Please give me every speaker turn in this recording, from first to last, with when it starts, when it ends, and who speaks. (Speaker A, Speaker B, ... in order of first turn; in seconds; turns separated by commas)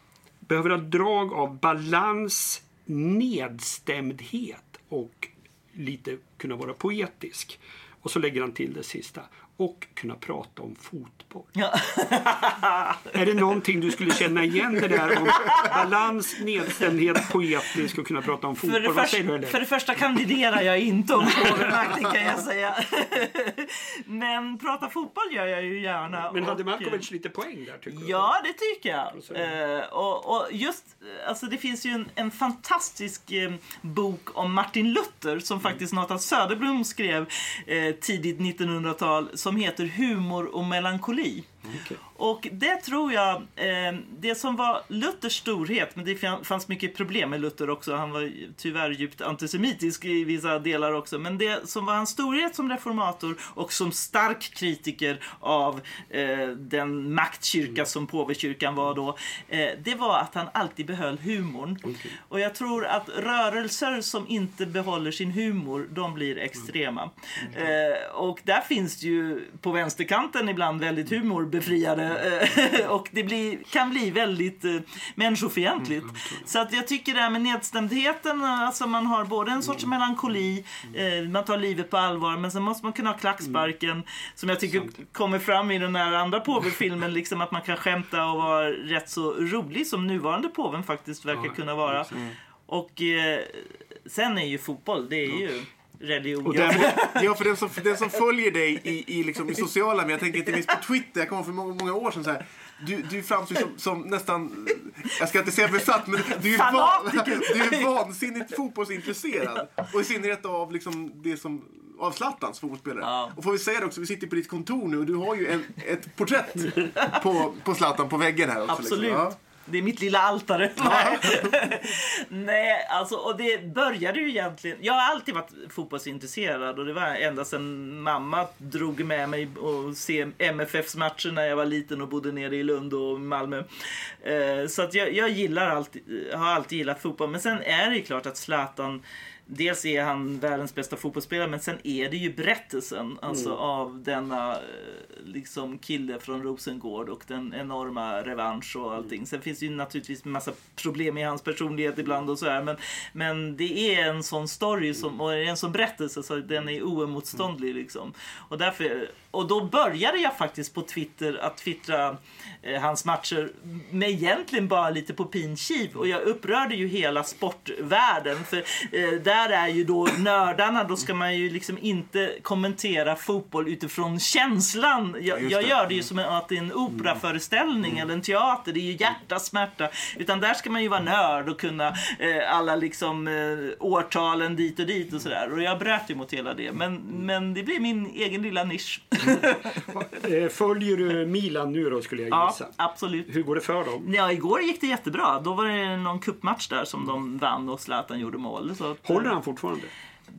Speaker A: 0.5-11.5, Speaker B: 11.6-13.1, Speaker A: 13.1-19.6, Speaker B: 15.4-15.8, Speaker B: 18.6-27.0, Speaker A: 26.1-28.3, Speaker B: 27.9-41.5, Speaker A: 29.1-29.5, Speaker A: 41.7-42.0, Speaker B: 42.1-97.3, Speaker A: 76.0-76.4, Speaker A: 91.3-92.1, Speaker A: 96.4-97.0, Speaker C: 96.9-119.3, Speaker B: 106.3-108.0, Speaker B: 113.0-113.3, Speaker B: 118.7-189.9, Speaker C: 120.8-121.5, Speaker A: 143.3-143.6, Speaker C: 175.3-175.9, Speaker A: 189.9-192.7, Speaker B: 192.3-193.3, Speaker A: 193.3-194.1, Speaker B: 194.0-199.3, Speaker A: 199.0-199.9